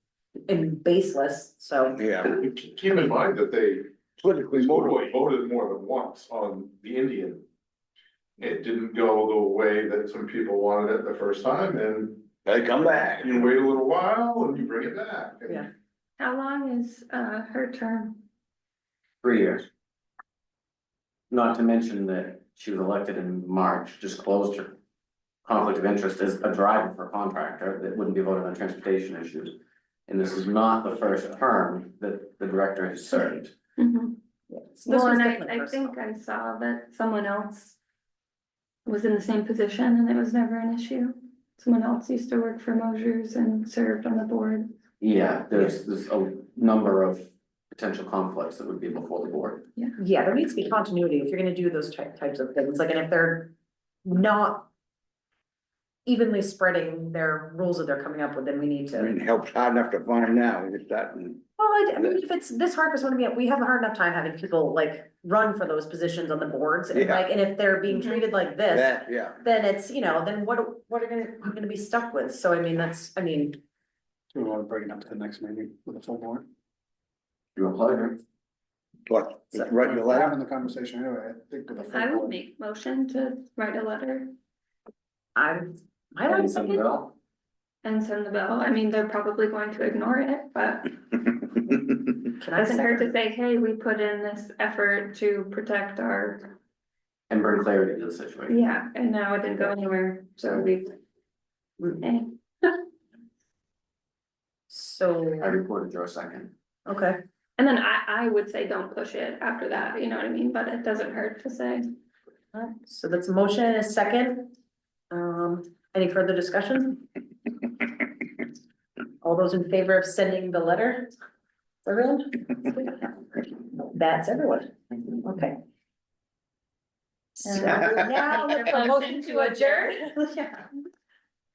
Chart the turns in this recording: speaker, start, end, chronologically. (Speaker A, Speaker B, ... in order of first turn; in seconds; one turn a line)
Speaker A: 0.5-2.0
Speaker B: 2.0-2.4
Speaker C: 2.3-3.9
Speaker B: 4.2-5.1
Speaker C: 4.6-7.4
Speaker C: 8.4-12.3
Speaker B: 12.4-13.5
Speaker C: 13.2-15.7
Speaker D: 16.2-18.2
Speaker E: 19.2-19.6
Speaker E: 21.3-24.8
Speaker E: 25.4-29.5
Speaker E: 30.1-33.5
Speaker D: 33.8-34.2
Speaker A: 34.5-35.9
Speaker D: 34.9-37.8
Speaker D: 38.9-44.7
Speaker E: 45.0-49.6
Speaker A: 50.0-53.5
Speaker A: 54.0-54.7
Speaker A: 56.0-59.1
Speaker B: 58.9-61.4
Speaker A: 61.6-73.6
Speaker B: 66.9-67.2
Speaker D: 67.9-68.2
Speaker B: 68.7-69.4
Speaker F: 74.3-76.5
Speaker E: 77.5-78.2
Speaker B: 79.1-80.3
Speaker F: 79.5-82.4
Speaker D: 81.8-84.3
Speaker A: 85.3-86.8
Speaker E: 86.3-87.1
Speaker D: 87.8-90.9
Speaker A: 92.4-93.1
Speaker D: 92.5-96.5
Speaker E: 97.3-98.5
Speaker D: 98.5-100.9
Speaker D: 102.0-102.3
Speaker A: 104.7-105.6
Speaker E: 105.4-106.5
Speaker A: 106.8-107.2
Speaker D: 107.6-111.8
Speaker A: 112.5-114.5
Speaker A: 115.1-117.0
Speaker A: 119.2-121.1
Speaker A: 121.8-123.1
Speaker A: 123.8-125.6
Speaker A: 127.4-130.7
Speaker D: 127.4-130.1